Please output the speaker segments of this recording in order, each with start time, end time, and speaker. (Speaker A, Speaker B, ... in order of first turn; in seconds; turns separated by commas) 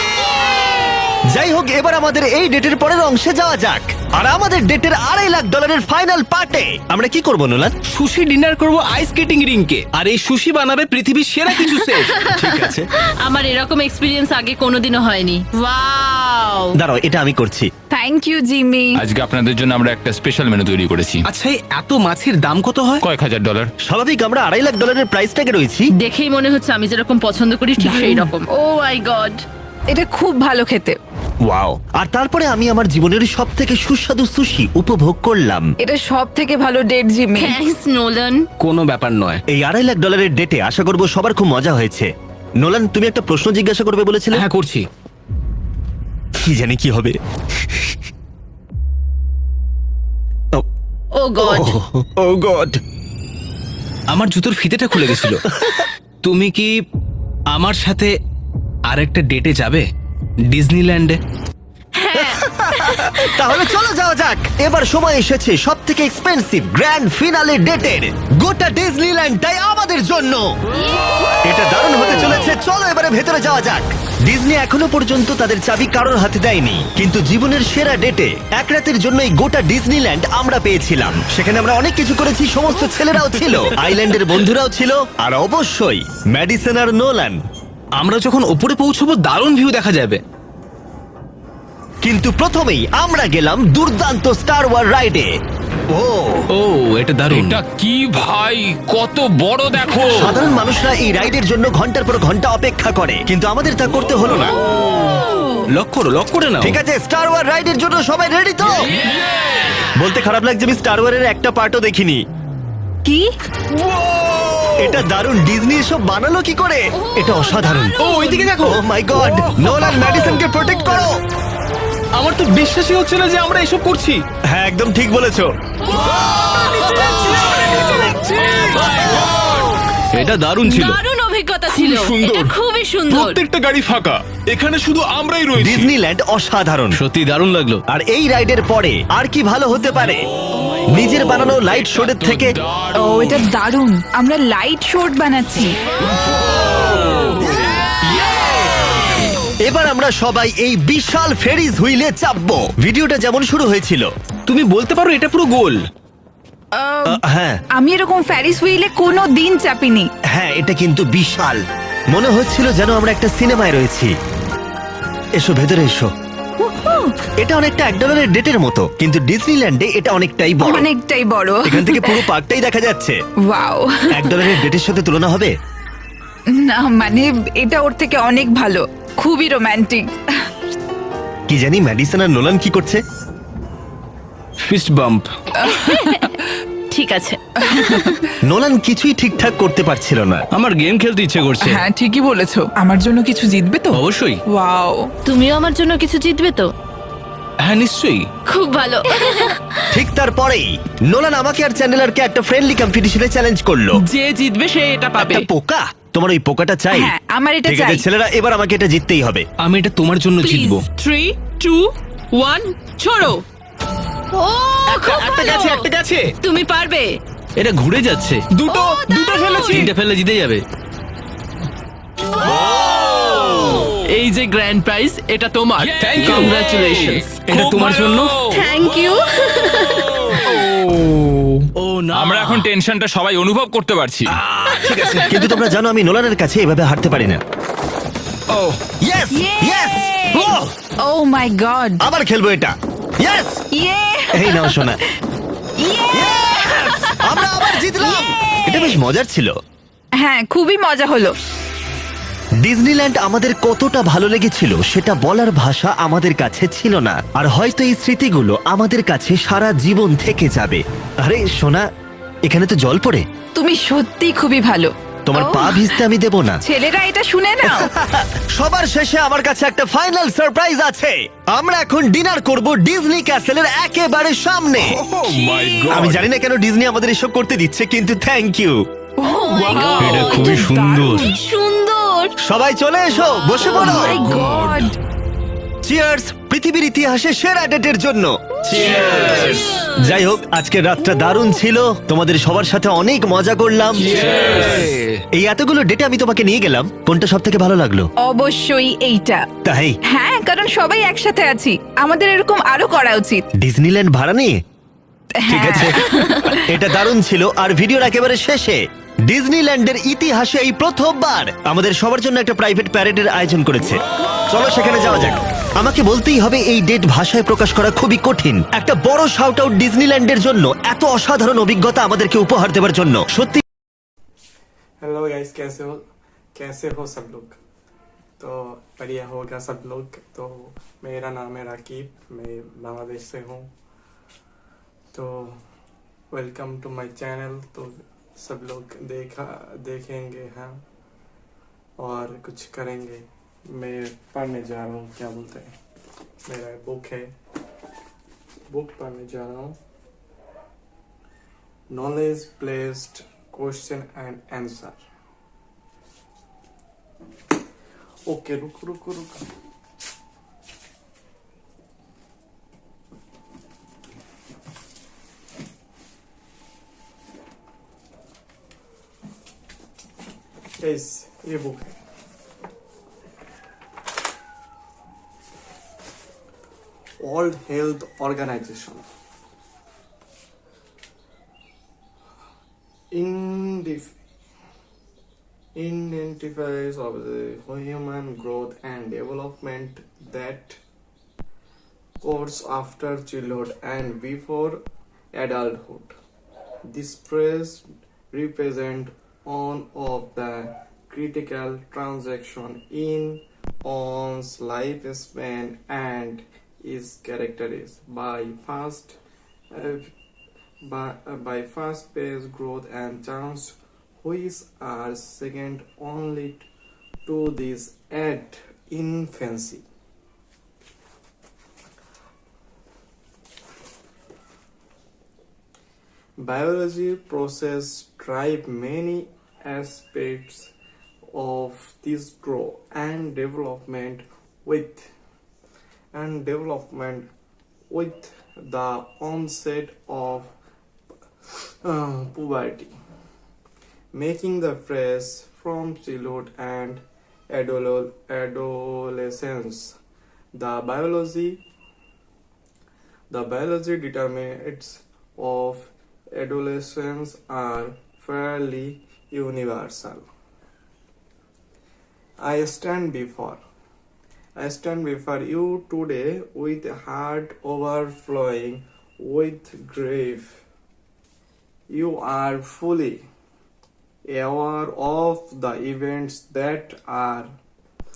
Speaker A: 1.3-7.8, Speaker B: 7.9-12.8, Speaker C: 11.5-16.7, Speaker A: 16.8-17.7, Speaker D: 17.9-19.0, Speaker E: 19.0-21.2, Speaker B: 21.2-23.0, Speaker E: 23.0-23.7, Speaker A: 23.9-25.9, Speaker C: 26.0-29.4, Speaker D: 27.8-28.4, Speaker D: 29.9-31.0, Speaker A: 31.4-35.7, Speaker D: 35.8-37.6, Speaker C: 37.4-38.4, Speaker B: 38.6-39.4, Speaker A: 39.5-42.1, Speaker A: 42.6-44.4, Speaker B: 44.3-44.9, Speaker A: 46.4-47.2, Speaker C: 51.2-51.7, Speaker A: 51.4-52.8, Speaker B: 54.1-55.4, Speaker A: 55.5-55.9, Speaker B: 56.2-56.7, Speaker B: 57.5-58.1, Speaker B: 58.9-59.8, Speaker B: 60.5-61.2, Speaker C: 62.0-63.7, Speaker A: 62.1-70.5, Speaker C: 70.8-71.4, Speaker A: 71.4-87.4, Speaker B: 88.0-90.2, Speaker A: 92.0-95.3, Speaker A: 95.9-96.5, Speaker B: 96.5-97.6, Speaker E: 97.3-100.3, Speaker A: 100.1-104.5, Speaker B: 105.7-106.8, Speaker A: 106.6-108.8, Speaker E: 108.9-109.8, Speaker A: 110.0-112.2, Speaker D: 113.0-113.3, Speaker F: 113.7-114.9, Speaker A: 114.8-117.9, Speaker C: 117.0-118.6, Speaker B: 118.0-118.8, Speaker A: 118.6-121.2, Speaker B: 119.6-120.3, Speaker C: 119.9-121.0, Speaker B: 122.2-124.2, Speaker A: 124.5-125.5, Speaker B: 126.4-129.1, Speaker C: 127.5-127.8, Speaker F: 127.6-129.6, Speaker B: 130.1-131.0, Speaker C: 130.6-133.4, Speaker F: 131.7-132.5, Speaker F: 133.1-135.9, Speaker A: 135.6-137.0, Speaker B: 136.9-137.8, Speaker A: 137.9-140.2, Speaker A: 140.9-142.6, Speaker E: 141.1-143.4, Speaker D: 142.9-145.8, Speaker E: 146.8-148.9, Speaker A: 149.6-154.1, Speaker B: 154.5-155.8, Speaker D: 156.7-157.2, Speaker A: 157.1-157.6, Speaker D: 157.8-160.1, Speaker A: 160.3-164.1, Speaker A: 165.4-166.1, Speaker D: 166.6-167.1, Speaker A: 167.4-170.9, Speaker D: 170.6-172.3, Speaker A: 171.6-173.2, Speaker D: 173.5-174.6, Speaker A: 174.1-175.5, Speaker D: 176.6-180.5, Speaker A: 181.5-183.0, Speaker B: 184.6-185.2, Speaker D: 185.6-186.3, Speaker C: 185.7-186.3, Speaker C: 186.9-188.1, Speaker D: 187.6-188.3, Speaker A: 188.4-190.4, Speaker B: 190.5-191.8, Speaker D: 191.6-195.1, Speaker B: 193.9-194.4, Speaker C: 195.2-196.7, Speaker B: 197.6-198.2, Speaker C: 198.5-199.8, Speaker A: 199.9-204.0, Speaker G: 204.0-205.4, Speaker A: 205.2-207.1, Speaker D: 206.9-208.0, Speaker A: 207.6-209.4, Speaker B: 209.6-210.8, Speaker C: 210.4-210.8, Speaker G: 211.0-211.8, Speaker G: 212.4-213.3, Speaker C: 214.3-215.9, Speaker B: 214.9-216.3, Speaker C: 216.4-217.1, Speaker B: 217.6-220.6, Speaker C: 218.7-219.9, Speaker F: 219.2-219.8, Speaker E: 222.7-224.0, Speaker G: 223.9-227.4, Speaker E: 225.8-228.8, Speaker B: 226.0-228.3, Speaker C: 228.5-230.5, Speaker E: 230.1-234.4, Speaker B: 231.8-232.7, Speaker B: 234.3-235.5, Speaker C: 234.9-235.1, Speaker A: 235.2-237.4, Speaker A: 239.0-240.7, Speaker D: 239.3-242.0, Speaker A: 242.0-243.6, Speaker D: 243.8-244.9, Speaker A: 244.3-245.0, Speaker D: 245.8-249.0, Speaker A: 246.1-249.6, Speaker D: 250.2-251.3, Speaker A: 252.6-261.9, Speaker A: 262.4-263.2, Speaker D: 263.5-266.0, Speaker A: 265.2-266.6, Speaker D: 266.6-267.9, Speaker A: 267.6-275.0, Speaker F: 275.0-276.1, Speaker E: 275.2-276.2, Speaker A: 275.9-278.8, Speaker D: 279.2-281.4, Speaker C: 279.5-280.6, Speaker F: 280.0-281.3, Speaker C: 281.3-282.3, Speaker A: 282.4-284.2, Speaker D: 283.5-284.9, Speaker F: 283.9-284.9, Speaker A: 285.8-289.3, Speaker F: 288.7-289.7, Speaker B: 288.8-289.4, Speaker A: 289.9-294.3, Speaker B: 294.0-295.2, Speaker E: 294.4-294.9, Speaker A: 295.3-298.1, Speaker D: 298.2-299.5, Speaker A: 299.6-299.9, Speaker D: 300.1-303.4, Speaker A: 303.6-304.6, Speaker D: 305.4-306.7, Speaker A: 305.5-323.6, Speaker H: 325.0-326.0, Speaker H: 326.5-327.6, Speaker H: 328.4-333.7, Speaker H: 335.1-335.6, Speaker H: 336.3-340.8, Speaker H: 342.0-345.7, Speaker H: 346.4-347.3, Speaker H: 348.7-349.8, Speaker H: 351.9-355.0, Speaker H: 358.3-359.4, Speaker H: 370.8-372.0, Speaker H: 377.2-379.0, Speaker H: 383.1-384.1, Speaker H: 385.7-390.8, Speaker H: 392.2-394.8, Speaker H: 395.3-396.1, Speaker H: 396.8-409.2, Speaker H: 409.7-410.1, Speaker H: 410.8-416.6, Speaker H: 417.2-419.8, Speaker H: 426.4-430.7, Speaker H: 431.3-435.1, Speaker H: 436.1-437.3, Speaker H: 437.9-440.5, Speaker H: 441.5-442.9, Speaker H: 444.1-450.0, Speaker H: 450.5-451.6, Speaker H: 453.3-460.2, Speaker H: 462.4-463.6, Speaker H: 464.6-470.6, Speaker H: 471.9-473.2, Speaker H: 474.2-477.5